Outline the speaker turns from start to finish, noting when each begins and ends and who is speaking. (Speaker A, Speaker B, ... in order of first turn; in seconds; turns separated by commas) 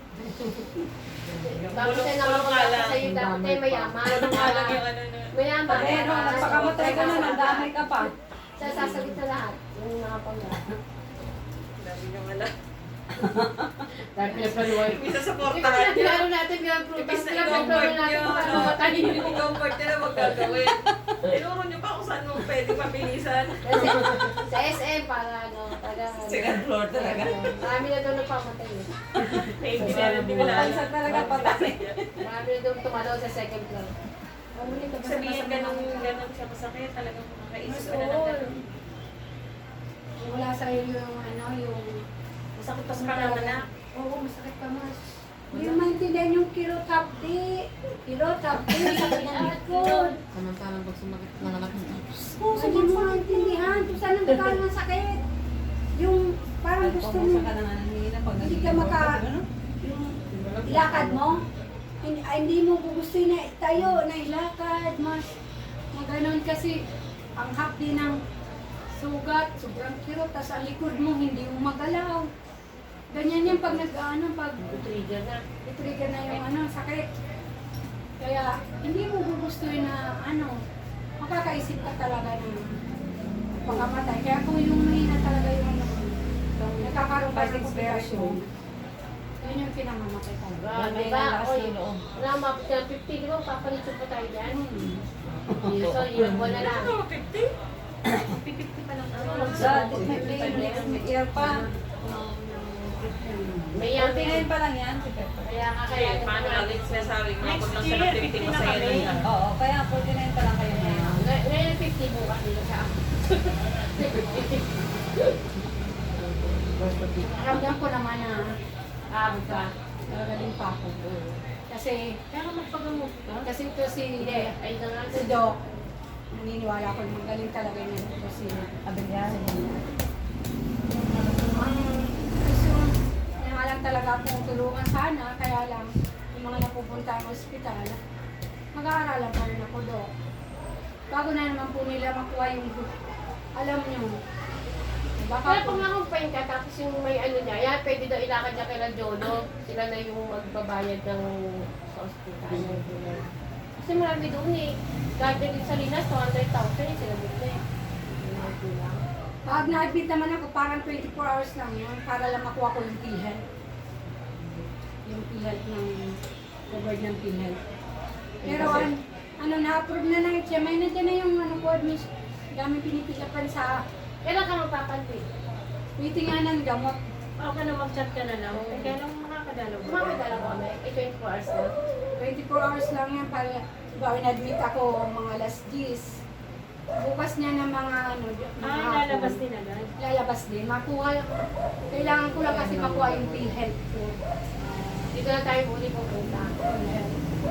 Speaker A: 1.2-2.0, Speaker B: 1.4-4.8, Speaker C: 1.7-3.0, Speaker A: 3.0-4.1, Speaker C: 4.0-7.5, Speaker B: 5.3-7.7, Speaker D: 5.7-8.1, Speaker E: 7.0-7.5, Speaker B: 8.6-10.6, Speaker E: 8.7-9.1, Speaker C: 11.8-12.5, Speaker D: 13.2-13.5, Speaker B: 14.2-19.5, Speaker C: 14.3-16.3, Speaker C: 16.9-24.0, Speaker D: 20.5-21.4, Speaker B: 23.6-28.9, Speaker C: 26.2-26.6, Speaker D: 26.3-27.4, Speaker C: 29.4-32.0, Speaker A: 29.8-30.7, Speaker D: 29.8-32.2, Speaker B: 32.2-33.9, Speaker E: 34.5-36.1, Speaker C: 35.0-38.6, Speaker E: 37.6-38.6, Speaker E: 40.2-42.0, Speaker C: 42.6-43.6, Speaker E: 42.6-50.2, Speaker A: 45.5-45.9, Speaker B: 48.7-50.2, Speaker A: 50.3-52.5, Speaker E: 52.5-55.2, Speaker F: 52.6-53.7, Speaker E: 56.0-57.5, Speaker D: 56.8-59.5, Speaker E: 58.4-59.2, Speaker E: 59.8-61.4, Speaker A: 60.3-61.4, Speaker E: 62.0-65.3, Speaker E: 65.9-66.8, Speaker E: 67.4-68.2, Speaker E: 68.9-72.3, Speaker E: 73.1-74.8, Speaker B: 74.6-75.4, Speaker E: 75.7-77.1, Speaker E: 78.2-80.6, Speaker E: 81.2-82.7, Speaker E: 83.6-86.2, Speaker B: 86.6-87.0, Speaker E: 86.8-88.5, Speaker D: 87.2-88.4, Speaker E: 89.4-90.7, Speaker B: 90.6-94.6, Speaker D: 90.7-92.0, Speaker E: 94.5-95.0, Speaker B: 95.7-96.9, Speaker D: 95.7-96.4, Speaker C: 96.6-97.5, Speaker F: 98.2-103.2, Speaker C: 99.1-99.7, Speaker D: 99.5-101.6, Speaker B: 99.6-100.9, Speaker E: 103.2-103.8, Speaker B: 103.7-104.5, Speaker D: 103.9-105.5, Speaker B: 105.4-107.2, Speaker C: 105.9-109.3, Speaker F: 107.4-109.2, Speaker D: 109.2-111.3, Speaker B: 110.7-115.3, Speaker A: 116.0-117.6, Speaker E: 117.2-118.4, Speaker B: 119.1-119.7, Speaker E: 119.3-121.0, Speaker A: 121.0-121.4, Speaker E: 121.7-122.0, Speaker F: 122.3-123.5, Speaker E: 123.5-124.5, Speaker B: 124.2-125.5, Speaker E: 125.1-125.5, Speaker E: 126.3-128.8, Speaker D: 128.9-129.6, Speaker E: 131.4-138.0, Speaker E: 138.8-140.1, Speaker E: 141.1-142.9, Speaker E: 143.6-144.1, Speaker E: 145.2-145.8, Speaker B: 145.4-153.2, Speaker A: 152.5-152.8, Speaker B: 153.8-159.0, Speaker E: 159.5-163.4, Speaker E: 165.1-166.2, Speaker E: 166.7-167.6, Speaker B: 168.4-168.9, Speaker E: 168.5-173.8, Speaker B: 174.2-175.2, Speaker E: 176.0-177.0, Speaker F: 177.4-180.3, Speaker B: 178.5-179.0, Speaker B: 179.8-181.7, Speaker E: 182.2-186.2, Speaker E: 187.0-189.4, Speaker F: 188.6-189.9, Speaker E: 190.0-194.2, Speaker D: 192.4-193.5, Speaker B: 195.1-196.5, Speaker E: 196.6-197.2